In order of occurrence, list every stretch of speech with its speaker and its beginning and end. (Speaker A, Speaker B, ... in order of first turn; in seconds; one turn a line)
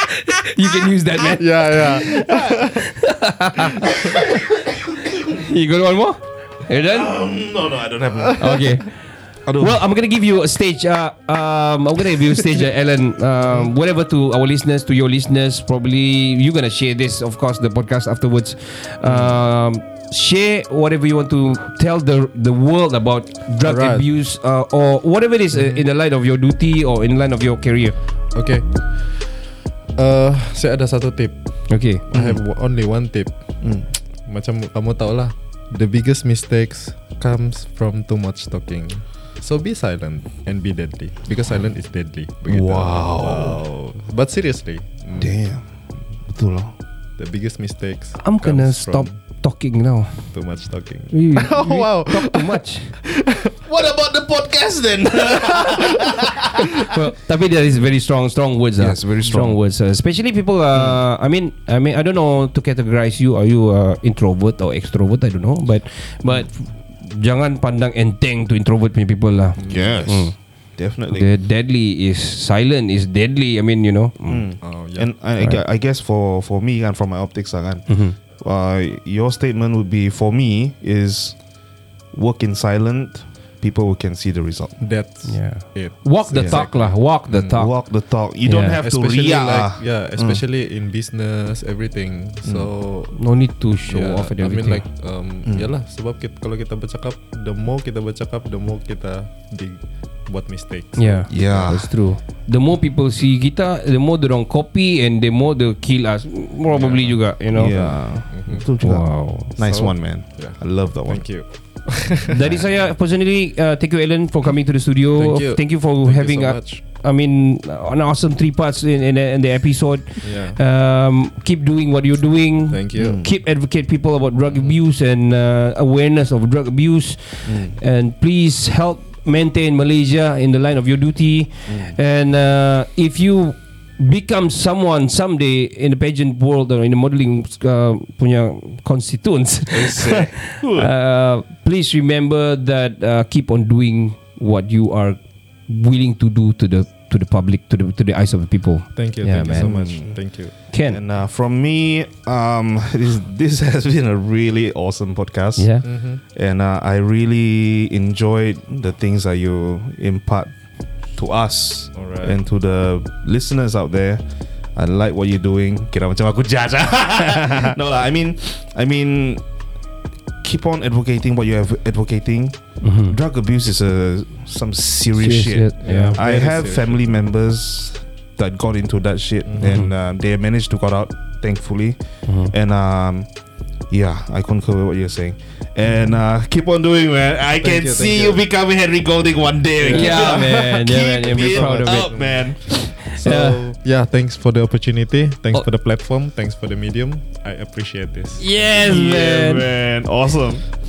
Speaker A: 0.2-4.3
Speaker B: 1.2-2.8
Speaker C: 3.8-5.4
Speaker A: 5.4-7.1
Speaker C: 6.7-8.7
Speaker A: 8.4-8.9
Speaker C: 9.4-9.8
Speaker A: 9.6-27.9
Speaker B: 23.6-24.1
Speaker B: 25.6-25.8
Speaker B: 28.3-28.6
Speaker B: 30.0-31.4
Speaker A: 31.7-32.0
Speaker B: 32.1-33.3
Speaker C: 32.1-32.4
Speaker B: 34.3-45.3
Speaker C: 42.5-43.6
Speaker C: 45.2-45.6
Speaker C: 46.2-46.7
Speaker B: 47.2-49.2
Speaker A: 48.2-50.2
Speaker B: 50.3-53.5
Speaker A: 51.1-53.0
Speaker C: 53.6-56.8
Speaker A: 56.8-70.3
Speaker C: 58.8-59.6
Speaker B: 69.6-70.1
Speaker C: 69.7-71.3
Speaker A: 71.1-74.4
Speaker C: 74.2-81.4
Speaker B: 74.6-75.1
Speaker A: 77.9-78.1
Speaker C: 82.1-84.8
Speaker B: 84.8-87.6
Speaker A: 85.2-87.7
Speaker C: 86.3-86.6
Speaker C: 87.5-90.4
Speaker A: 88.5-88.8
Speaker B: 88.8-93.2
Speaker A: 93.2-94.8
Speaker B: 93.8-101.5
Speaker A: 101.0-107.8
Speaker C: 101.3-101.9
Speaker B: 106.7-107.2
Speaker C: 107.5-111.2
Speaker B: 108.3-108.6
Speaker A: 108.8-109.5
Speaker B: 109.6-112.5
Speaker A: 112.3-149.7
Speaker B: 115.2-116.8
Speaker B: 120.2-120.6
Speaker B: 122.7-123.2
Speaker C: 123.0-123.3
Speaker C: 127.5-127.7
Speaker C: 139.7-140.9
Speaker B: 148.9-150.5
Speaker C: 149.5-150.2
Speaker A: 150.7-151.0
Speaker C: 150.9-160.5
Speaker A: 155.6-155.8
Speaker B: 155.8-156.2
Speaker C: 161.2-164.2
Speaker B: 161.9-162.3
Speaker C: 164.8-169.4
Speaker C: 170.4-182.0
Speaker A: 172.8-173.1
Speaker A: 175.2-176.2
Speaker B: 175.8-177.1
Speaker B: 179.5-179.7
Speaker A: 179.6-179.9
Speaker A: 182.3-182.5
Speaker C: 182.5-183.3
Speaker C: 183.9-192.8
Speaker B: 187.6-188.4
Speaker B: 189.8-192.5
Speaker A: 189.9-193.6
Speaker B: 193.1-198.4
Speaker A: 198.4-199.6
Speaker C: 198.6-200.6